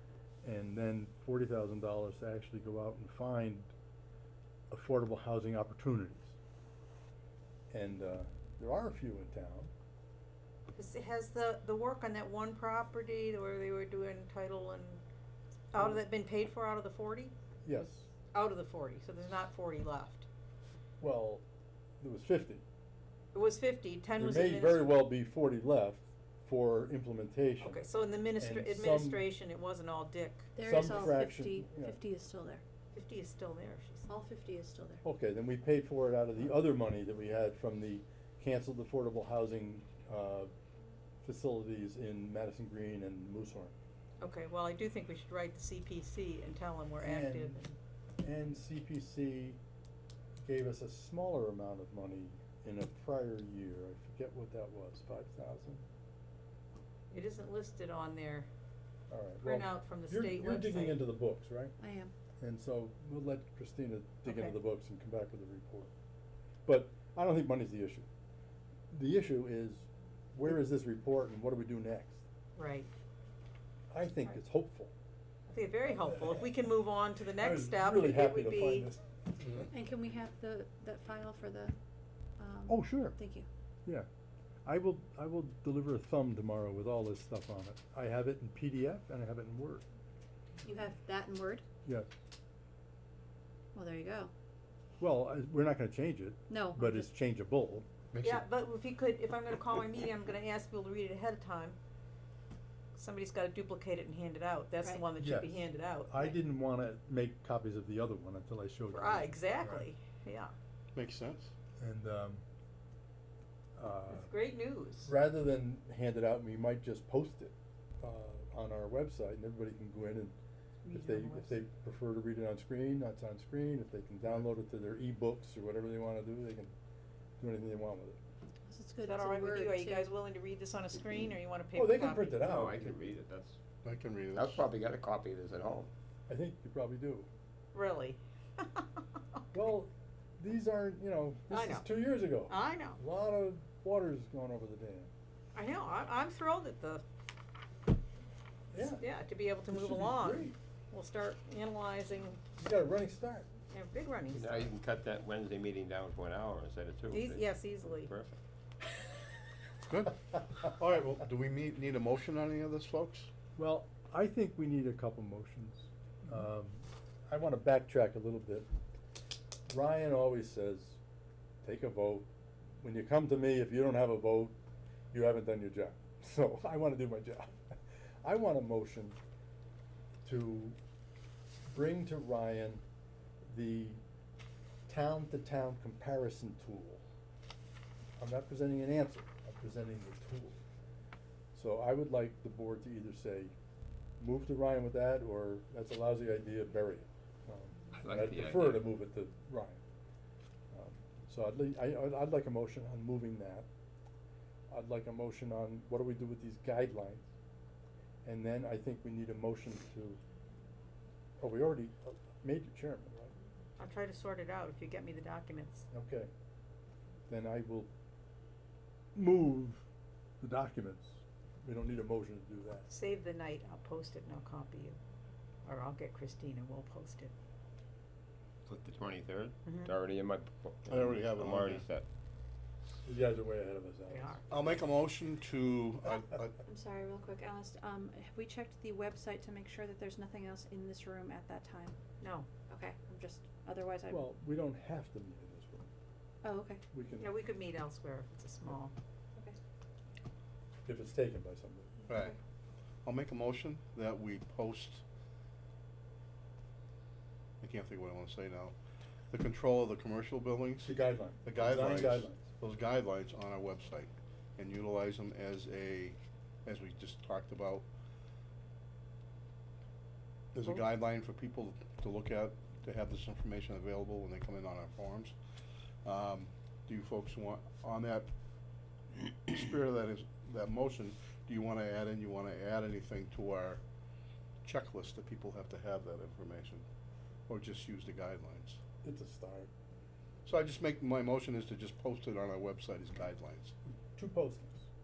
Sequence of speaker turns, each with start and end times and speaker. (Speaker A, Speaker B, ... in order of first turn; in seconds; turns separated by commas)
Speaker A: 0.4-3.7, Speaker A: 4.7-6.3, Speaker A: 7.7-9.7, Speaker B: 10.7-15.0, Speaker B: 15.7-17.3, Speaker A: 17.6-18.1, Speaker B: 18.3-20.3, Speaker A: 21.0-21.4, Speaker A: 22.0-22.6, Speaker B: 23.3-24.9, Speaker A: 24.2-27.8, Speaker B: 27.6-30.5, Speaker A: 28.4-29.2, Speaker C: 30.5-32.6, Speaker A: 30.6-32.0, Speaker B: 32.9-34.1, Speaker C: 34.1-35.0, Speaker A: 35.0-40.5, Speaker A: 41.2-43.8, Speaker B: 44.2-47.8, Speaker A: 47.0-47.6, Speaker A: 48.2-49.6, Speaker A: 50.4-55.8, Speaker B: 57.1-58.5, Speaker A: 59.1-61.7, Speaker B: 59.4-61.0, Speaker C: 61.8-62.1, Speaker A: 62.4-65.9, Speaker B: 64.2-64.5, Speaker A: 66.6-68.1, Speaker A: 68.9-72.2, Speaker B: 72.5-72.9, Speaker A: 73.9-74.9, Speaker B: 75.5-78.9, Speaker A: 75.9-76.5, Speaker A: 77.4-79.0, Speaker D: 79.4-79.7, Speaker C: 79.7-81.7, Speaker C: 82.4-83.5, Speaker A: 82.7-83.1, Speaker A: 84.6-89.8, Speaker C: 90.6-91.6, Speaker C: 93.7-94.3, Speaker A: 95.0-97.8, Speaker C: 96.5-97.1, Speaker D: 98.1-98.4, Speaker B: 98.2-101.8, Speaker B: 102.9-106.4, Speaker A: 105.2-109.9, Speaker B: 108.9-110.5, Speaker D: 110.9-111.5, Speaker A: 111.8-112.4, Speaker A: 113.8-114.3, Speaker B: 114.1-115.1, Speaker A: 115.0-120.3, Speaker B: 120.8-121.6, Speaker A: 120.9-126.7, Speaker A: 127.4-128.2, Speaker C: 128.7-130.1, Speaker B: 129.0-132.5, Speaker A: 131.7-133.0, Speaker E: 132.6-133.6, Speaker D: 133.8-134.6, Speaker E: 134.3-135.9, Speaker A: 136.3-137.3, Speaker B: 137.7-139.0, Speaker A: 139.5-145.1, Speaker B: 141.5-143.0, Speaker B: 145.5-147.0, Speaker A: 148.7-149.1, Speaker B: 148.9-152.4, Speaker A: 149.7-150.5, Speaker A: 152.6-153.5, Speaker B: 153.7-154.7, Speaker E: 154.3-158.4, Speaker B: 157.1-158.1, Speaker D: 159.8-163.3, Speaker A: 163.6-168.7, Speaker A: 169.7-171.0, Speaker A: 171.6-172.3, Speaker A: 172.8-174.6, Speaker A: 175.1-179.2, Speaker A: 180.2-180.8, Speaker A: 181.7-182.8, Speaker A: 183.4-184.0, Speaker A: 184.9-187.0, Speaker A: 188.2-190.6, Speaker A: 191.5-193.5, Speaker A: 194.2-199.8, Speaker E: 197.9-198.9, Speaker A: 200.7-203.7, Speaker A: 204.7-207.3, Speaker A: 208.2-210.2, Speaker A: 211.4-213.3, Speaker B: 213.8-215.8, Speaker A: 215.9-216.3, Speaker A: 217.3-217.9, Speaker A: 219.1-219.8, Speaker A: 220.4-222.9, Speaker B: 222.9-225.0, Speaker B: 225.6-227.3, Speaker E: 228.6-232.1, Speaker B: 229.6-229.9, Speaker D: 230.9-231.8, Speaker A: 233.0-234.4, Speaker B: 234.1-234.4, Speaker D: 234.5-236.5, Speaker C: 236.6-241.9, Speaker B: 242.2-242.5, Speaker C: 242.7-244.3, Speaker A: 244.1-245.9, Speaker C: 246.4-246.8, Speaker A: 246.9-247.3, Speaker B: 247.2-248.9, Speaker A: 250.8-252.0, Speaker D: 252.1-252.3, Speaker D: 253.0-255.0, Speaker D: 257.6-258.8, Speaker D: 259.3-267.9, Speaker A: 260.8-262.4, Speaker D: 270.5-275.4, Speaker D: 276.0-278.3, Speaker D: 279.1-283.8, Speaker D: 284.6-286.8, Speaker D: 287.5-288.8, Speaker A: 289.0-289.7, Speaker D: 290.4-293.7, Speaker A: 293.9-294.9